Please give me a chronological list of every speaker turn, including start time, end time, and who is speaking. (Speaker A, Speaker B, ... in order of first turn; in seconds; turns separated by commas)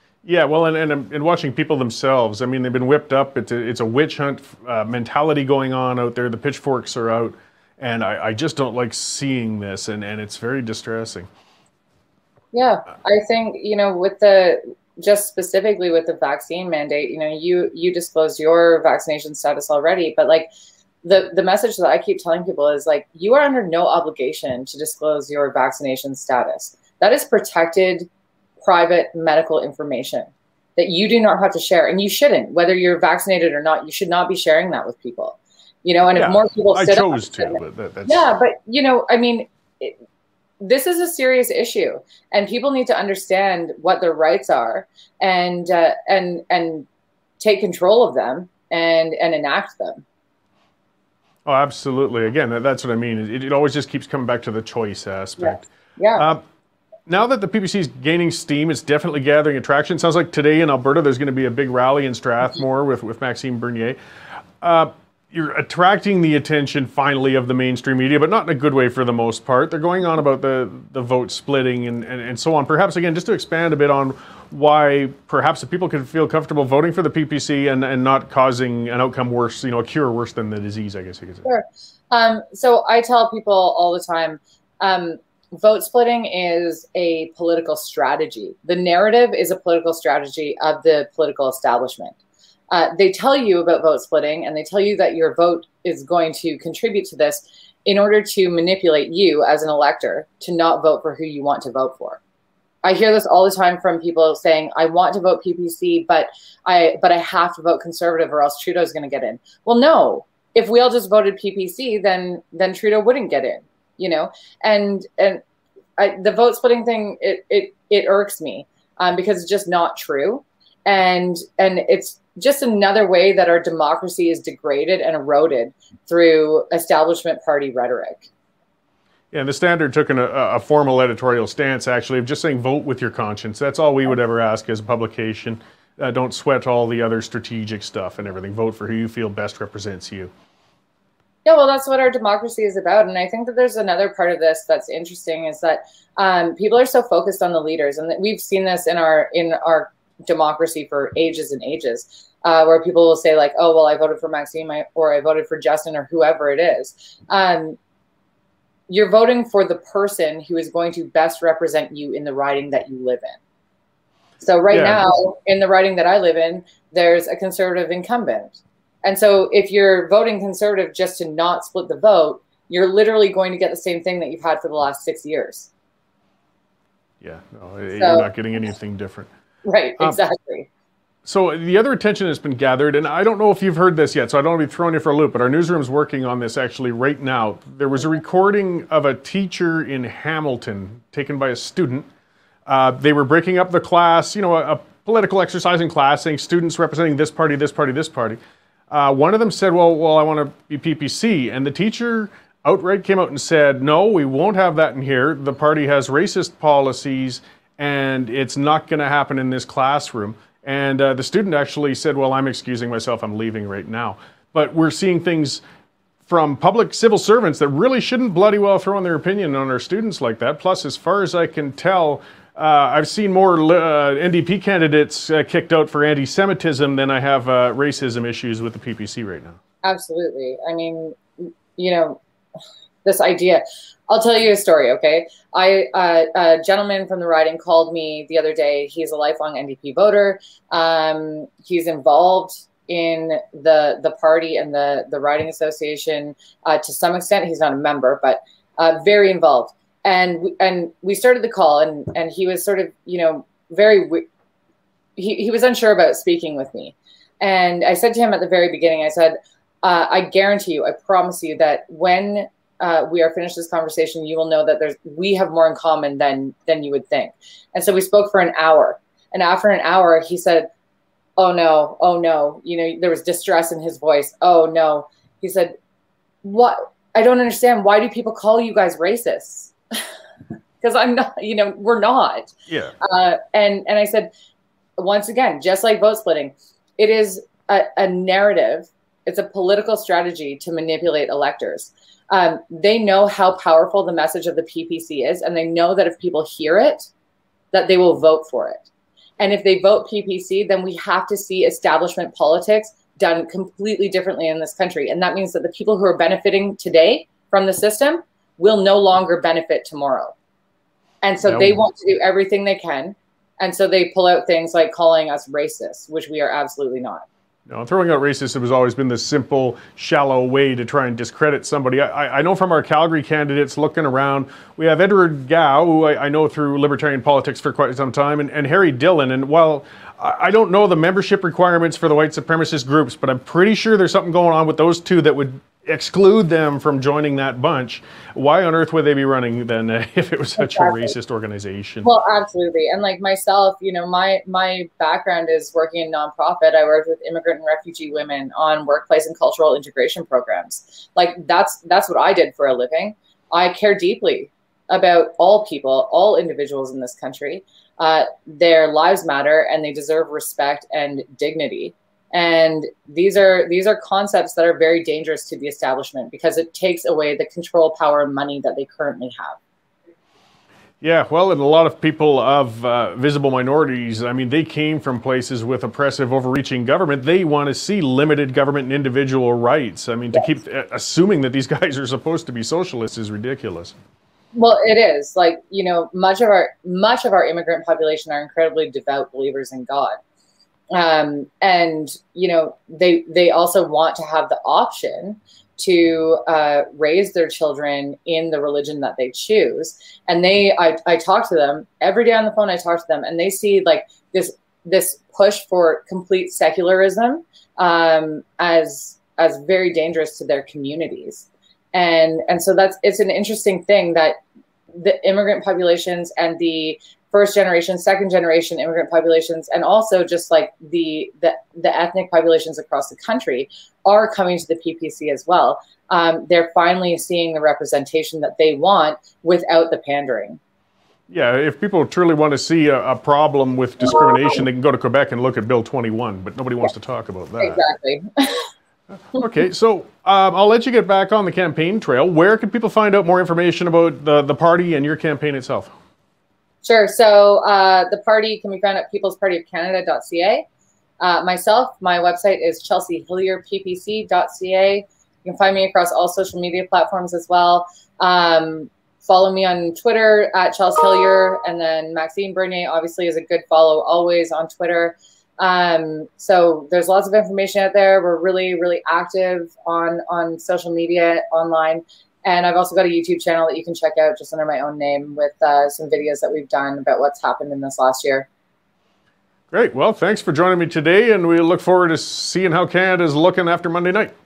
Speaker A: 0.2-11.3, Speaker B: 12.5-20.5, Speaker B: 21.0-28.1, Speaker B: 28.6-40.0, Speaker A: 36.1-38.3, Speaker B: 40.6-46.9, Speaker B: 47.4-50.0, Speaker A: 51.5-56.4, Speaker B: 55.4-56.3, Speaker A: 57.1-64.0, Speaker A: 64.6-81.5, Speaker B: 81.4-92.2, Speaker B: 92.7-102.2, Speaker B: 102.8-115.4, Speaker B: 116.0-128.3, Speaker A: 129.3-140.3, Speaker B: 141.4-157.8, Speaker B: 158.9-163.4, Speaker B: 164.4-175.7, Speaker A: 164.7-165.0, Speaker A: 177.2-179.3, Speaker B: 177.9-178.3, Speaker B: 179.6-180.7, Speaker A: 181.2-192.1, Speaker A: 192.7-198.4, Speaker A: 198.9-215.6, Speaker A: 216.2-229.6, Speaker B: 229.8-232.2, Speaker B: 233.0-254.2, Speaker B: 255.2-270.7, Speaker B: 271.4-275.7, Speaker B: 276.4-279.7, Speaker B: 280.8-284.3, Speaker A: 282.7-282.9, Speaker B: 285.0-297.1, Speaker B: 297.7-298.9, Speaker B: 299.4-310.3, Speaker B: 311.2-317.2, Speaker A: 311.4-311.8, Speaker A: 317.7-342.1, Speaker B: 340.6-341.1, Speaker B: 342.0-369.6, Speaker A: 371.0-383.9, Speaker B: 384.5-390.1, Speaker B: 390.9-414.4, Speaker B: 414.9-430.6, Speaker A: 431.3-437.8, Speaker B: 437.6-438.7, Speaker A: 439.3-445.9, Speaker B: 446.8-450.6, Speaker B: 451.2-478.5, Speaker A: 479.7-484.3